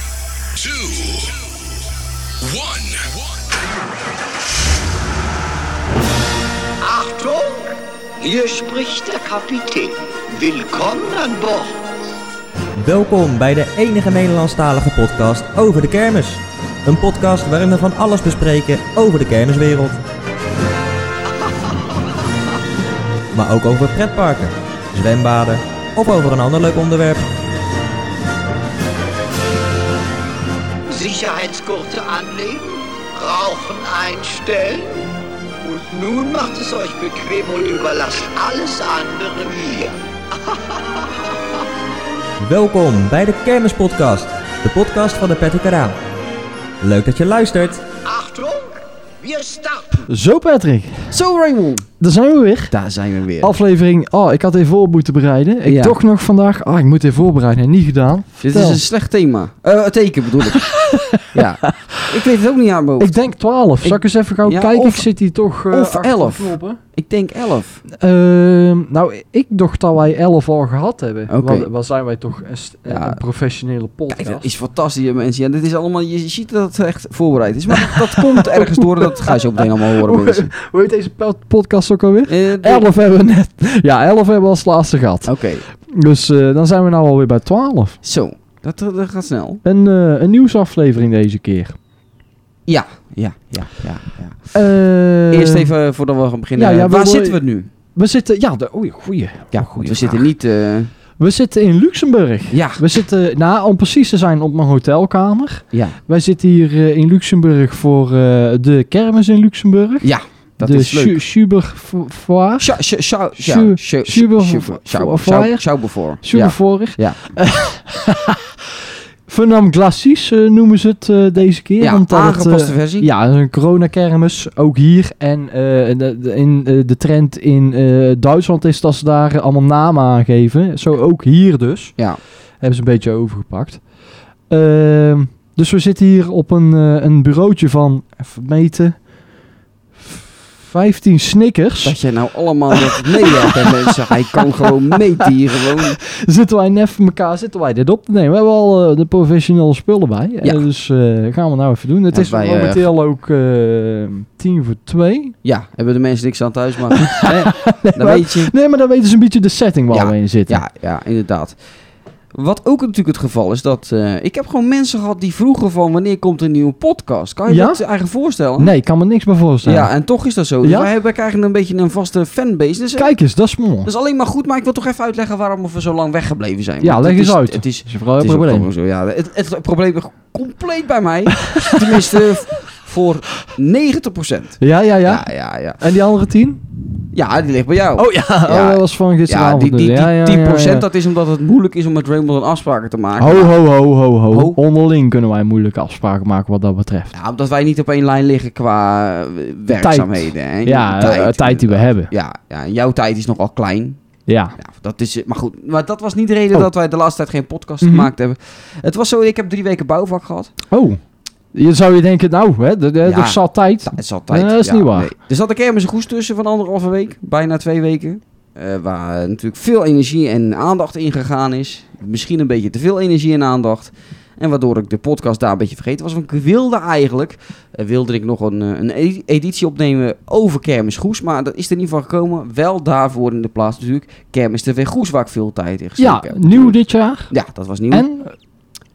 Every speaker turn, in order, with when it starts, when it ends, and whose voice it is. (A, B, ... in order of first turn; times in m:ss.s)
0:00.5-0:01.4 A
0:02.4-0:03.5 A
0:06.8-0:11.8 B
0:12.8-0:20.0 C
0:21.5-0:21.9 B
0:23.3-0:27.2 C
0:30.9-0:35.0 B
0:35.6-0:41.0 B
0:42.4-0:46.0 C
0:46.8-0:47.8 C
0:48.0-0:50.0 B
0:50.1-0:51.2 D
0:51.1-0:51.9 E
0:52.0-0:52.7 D
0:52.7-0:53.5 E
0:53.4-0:58.8 D
0:55.6-0:56.0 E
0:58.4-1:00.7 E
1:00.7-1:02.0 D
1:01.3-1:03.1 E
1:03.0-1:06.8 D
1:03.8-1:05.1 E
1:05.7-1:07.8 E
1:07.9-1:14.5 D
1:11.3-1:11.7 E
1:12.9-1:13.2 E
1:14.1-1:20.5 E
1:17.7-1:28.0 D
1:22.3-1:22.8 E
1:25.2-1:25.6 E
1:28.0-1:29.6 E
1:29.6-1:31.8 D
1:32.6-1:34.5 E
1:34.5-1:35.7 D
1:35.3-1:37.7 E
1:36.6-1:37.4 D
1:37.9-1:40.3 D
1:39.5-1:40.9 E
1:41.2-1:50.1 D
1:42.5-1:42.8 E
1:50.0-1:51.2 E
1:50.6-1:52.8 D
1:52.6-1:57.2 E
1:53.4-1:55.7 D
1:56.2-1:58.4 D
1:59.3-2:12.0 D
2:01.8-2:03.1 E
2:12.6-2:13.8 D
2:14.5-2:19.1 D
2:20.0-2:22.0 D
2:21.8-2:26.0 E
2:23.0-2:24.4 D
2:25.6-2:35.3 D
2:32.1-2:32.9 E
2:35.4-2:38.5 E
2:37.1-2:40.6 D
2:39.9-2:41.6 E
2:42.3-2:48.7 E
2:47.5-2:47.8 D
2:48.6-2:49.9 D
2:49.6-2:53.2 E
2:50.6-2:50.9 D
2:53.0-2:53.9 D
2:53.8-3:05.8 E
2:56.8-2:58.7 D
3:01.4-3:02.2 D
3:04.6-3:06.6 D
3:07.1-3:13.6 E
3:08.0-3:10.8 D
3:13.2-3:17.1 D
3:14.3-3:14.6 E
3:17.1-3:24.0 E
3:19.7-3:22.1 D
3:24.3-3:24.6 D
3:24.6-3:30.5 E
3:27.8-3:28.1 D
3:30.7-3:31.0 D
3:31.5-3:35.1 D
3:33.0-3:56.8 E
3:56.0-3:57.3 D
3:57.3-3:58.0 E
3:57.9-3:58.4 D